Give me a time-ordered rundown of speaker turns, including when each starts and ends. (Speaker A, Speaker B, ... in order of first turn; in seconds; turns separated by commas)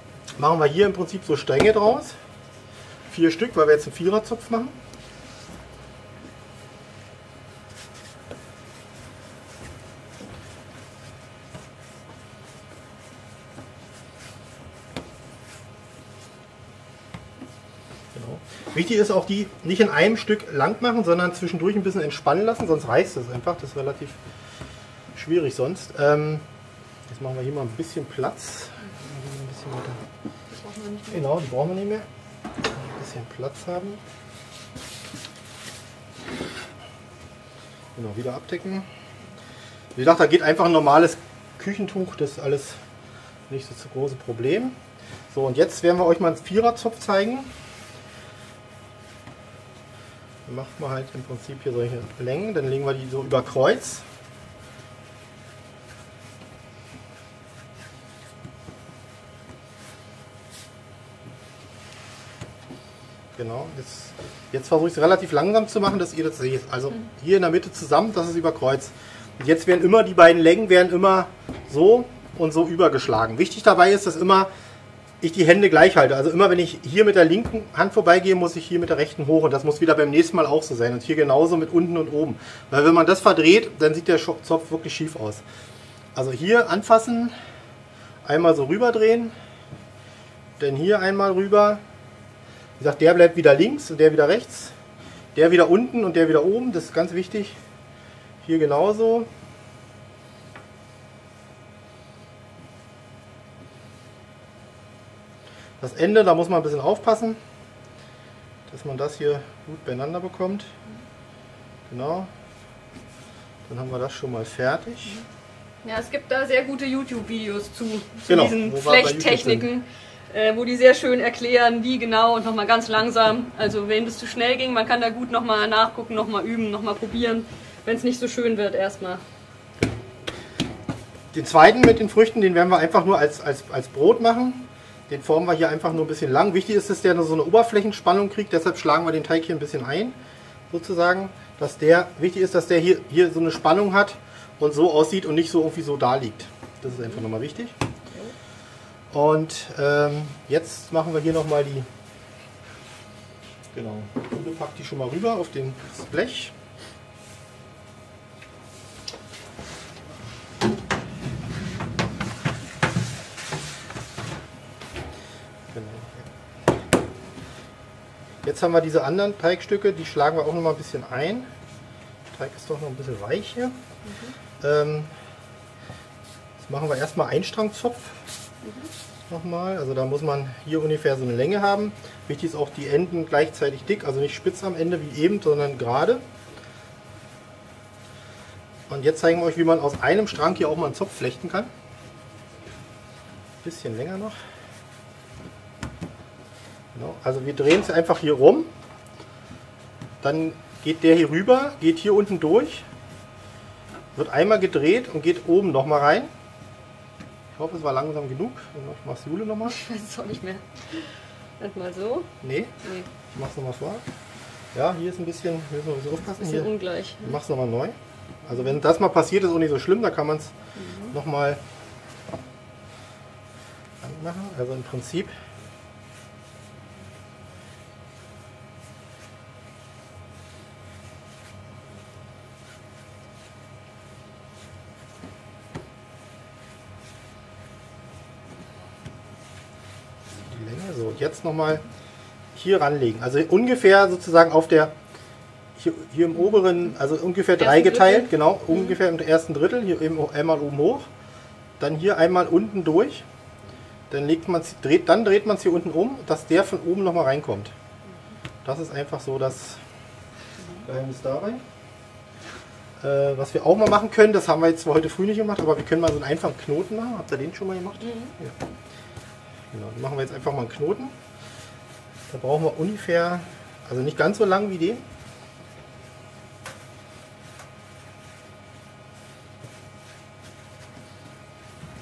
Speaker A: 0.4-2.2, Speaker A: 3.1-4.8, Speaker A: 18.1-24.2, Speaker A: 25.1-26.4, Speaker A: 27.1-30.0, Speaker B: 30.5-31.3, Speaker A: 31.1-32.1, Speaker A: 32.7-34.0, Speaker A: 38.0-38.9, Speaker A: 40.0-42.8, Speaker A: 43.5-44.8, Speaker A: 45.3-47.5, Speaker A: 50.5-54.0, Speaker A: 63.4-74.5, Speaker A: 75.2-85.4, Speaker A: 86.2-87.3, Speaker A: 88.2-89.3, Speaker A: 90.6-91.8, Speaker A: 92.8-94.7, Speaker A: 95.3-97.6, Speaker A: 98.4-99.3, Speaker A: 105.8-107.4, Speaker A: 108.7-110.7, Speaker A: 111.9-112.3, Speaker A: 113.7-115.2, Speaker B: 115.8-129.2, Speaker A: 118.3-119.7, Speaker A: 131.3-140.2, Speaker A: 140.7-147.7, Speaker A: 149.1-151.9, Speaker A: 153.7-156.5, Speaker A: 165.7-166.3, Speaker A: 168.4-171.5, Speaker A: 172.3-173.8, Speaker B: 174.1-174.3, Speaker A: 174.6-175.1, Speaker A: 176.6-178.2, Speaker B: 178.6-178.9, Speaker A: 179.3-186.2, Speaker A: 188.9-191.7, Speaker A: 193.6-194.4, Speaker A: 196.9-198.7, Speaker A: 200.2-202.9, Speaker A: 204.2-206.3, Speaker A: 207.6-209.8, Speaker B: 209.7-212.3, Speaker A: 212.4-212.7, Speaker B: 212.8-213.1, Speaker A: 213.3-214.0, Speaker A: 214.7-220.5, Speaker B: 216.4-217.3, Speaker B: 220.8-221.1, Speaker A: 221.1-221.6, Speaker A: 224.0-225.3, Speaker A: 240.5-241.8, Speaker A: 242.6-244.9, Speaker A: 245.8-251.1, Speaker B: 247.6-249.0, Speaker A: 251.8-253.2, Speaker A: 254.1-257.7, Speaker A: 258.6-259.8, Speaker A: 260.9-261.6, Speaker A: 263.0-268.6, Speaker A: 269.7-271.1, Speaker A: 272.3-275.0